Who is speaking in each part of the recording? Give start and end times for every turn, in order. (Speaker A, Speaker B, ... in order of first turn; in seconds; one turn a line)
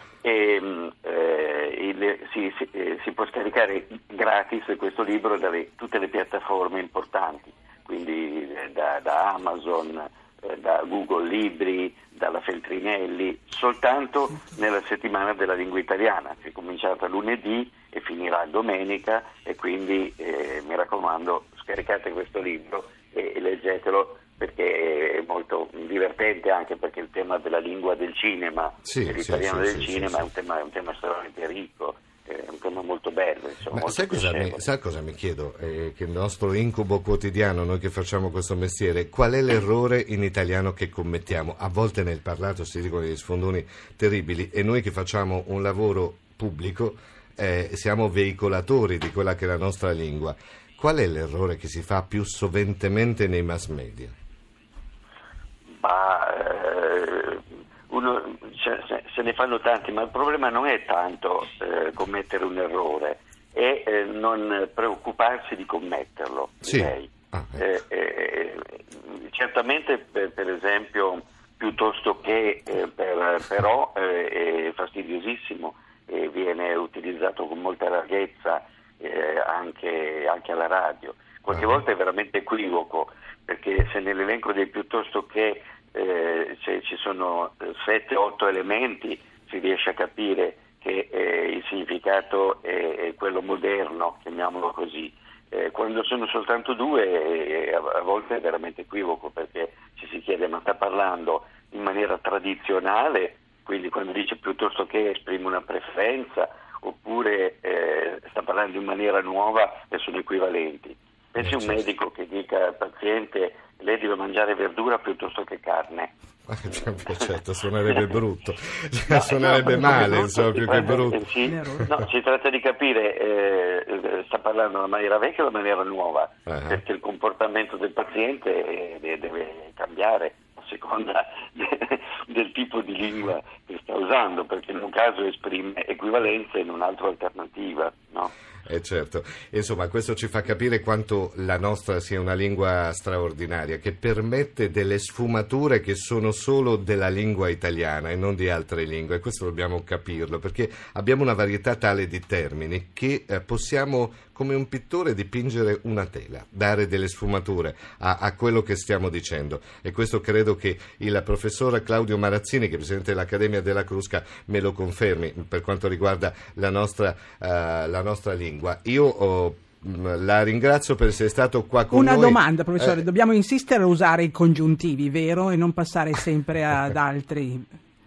Speaker A: 0.2-34.6
Speaker B: 28.8-30.3
Speaker B: 33.7-54.1
Speaker A: 55.8-116.1
Speaker B: 66.7-67.6
Speaker B: 81.5-81.8
Speaker B: 111.4-111.8
Speaker B: 116.5-121.9
Speaker A: 116.7-117.3
Speaker A: 119.1-138.3
Speaker C: 119.7-121.9
Speaker B: 126.5-126.8
Speaker B: 138.7-173.0
Speaker C: 171.9-177.7